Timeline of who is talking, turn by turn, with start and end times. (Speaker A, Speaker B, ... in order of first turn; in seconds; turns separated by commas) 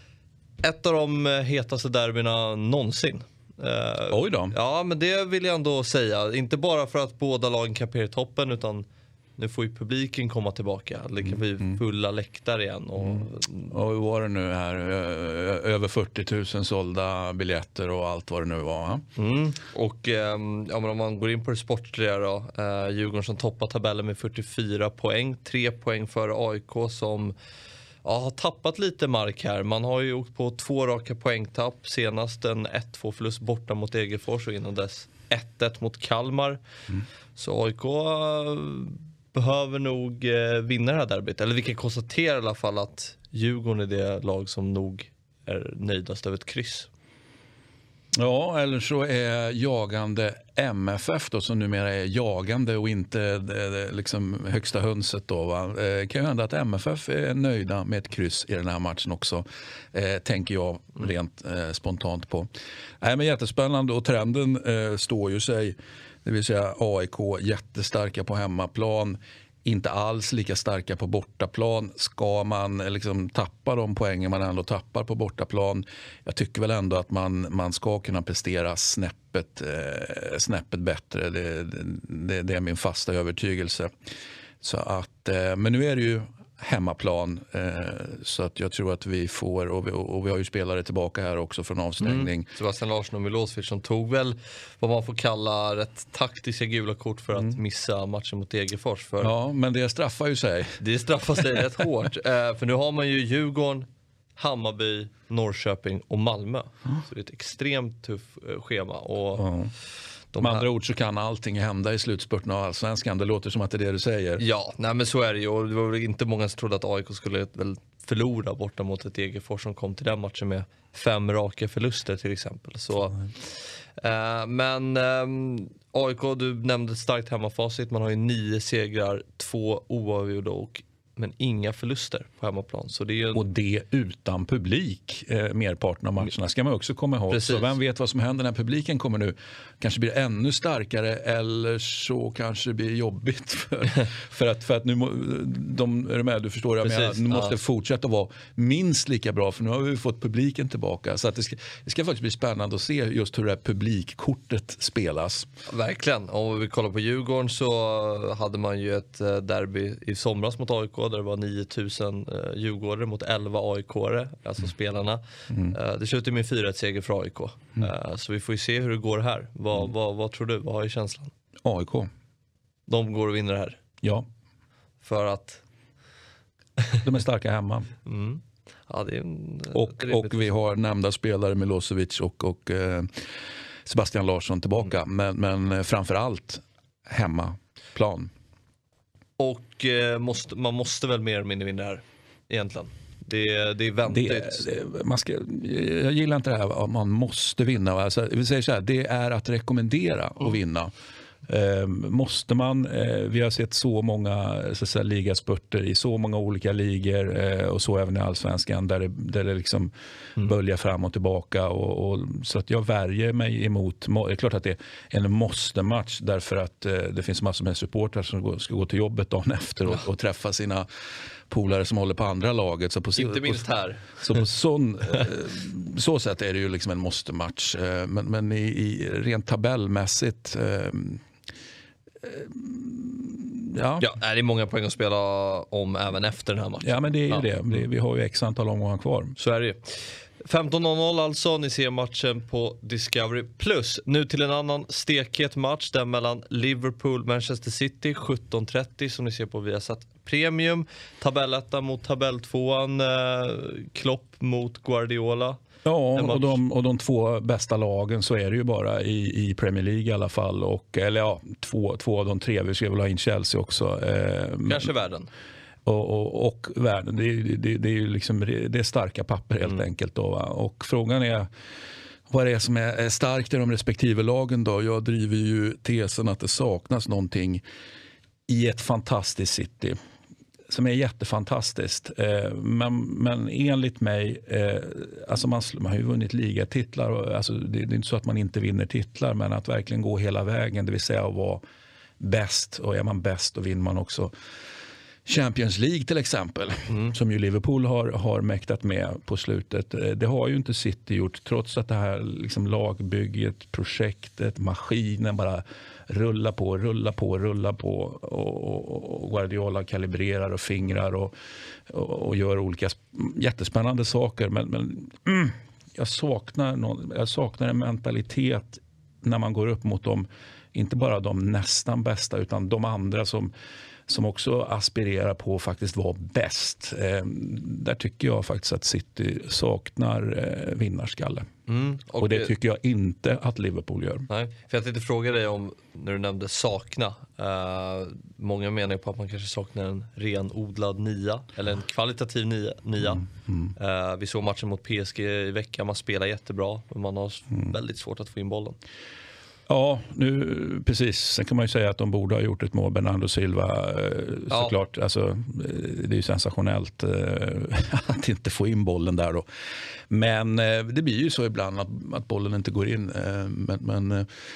Speaker A: 0.6-8.8, Speaker B: 4.1-4.5, Speaker A: 9.4-13.7, Speaker B: 11.2-11.8, Speaker B: 13.0-19.0, Speaker A: 19.1-27.3, Speaker A: 28.0-36.6, Speaker A: 37.4-46.9, Speaker B: 48.1-62.5, Speaker B: 63.0-83.9, Speaker B: 84.6-92.5, Speaker A: 92.0-99.3, Speaker B: 99.2-100.8, Speaker A: 100.8-109.5, Speaker B: 109.3-109.7, Speaker A: 110.3-110.6, Speaker B: 110.4-114.4, Speaker A: 114.4-133.4, Speaker B: 133.3-155.5, Speaker A: 137.3-137.7, Speaker A: 146.8-147.5, Speaker A: 155.7-171.3, Speaker B: 171.6-172.1, Speaker A: 172.9-173.8, Speaker A: 175.0-175.6, Speaker B: 177.0-177.9, Speaker A: 178.1-180.4, Speaker B: 179.7-183.2, Speaker B: 183.8-188.3, Speaker A: 189.4-194.6, Speaker B: 194.1-200.9, Speaker B: 201.4-220.8, Speaker B: 221.5-223.6, Speaker A: 223.2-224.2, Speaker B: 224.2-231.2, Speaker B: 232.2-234.1, Speaker A: 234.0-237.5, Speaker B: 236.8-239.3, Speaker A: 239.4-255.6, Speaker B: 255.8-264.9, Speaker A: 256.1-256.6, Speaker A: 264.6-265.3, Speaker B: 265.8-271.5, Speaker B: 272.3-277.6, Speaker B: 278.5-279.9, Speaker B: 280.7-291.6, Speaker B: 292.2-294.3, Speaker B: 295.2-311.3, Speaker B: 311.9-323.5, Speaker B: 324.1-331.4, Speaker A: 331.7-332.5, Speaker B: 332.2-334.3, Speaker A: 334.3-348.8, Speaker B: 343.5-343.7, Speaker B: 349.7-359.4, Speaker A: 354.5-354.7, Speaker B: 360.1-364.2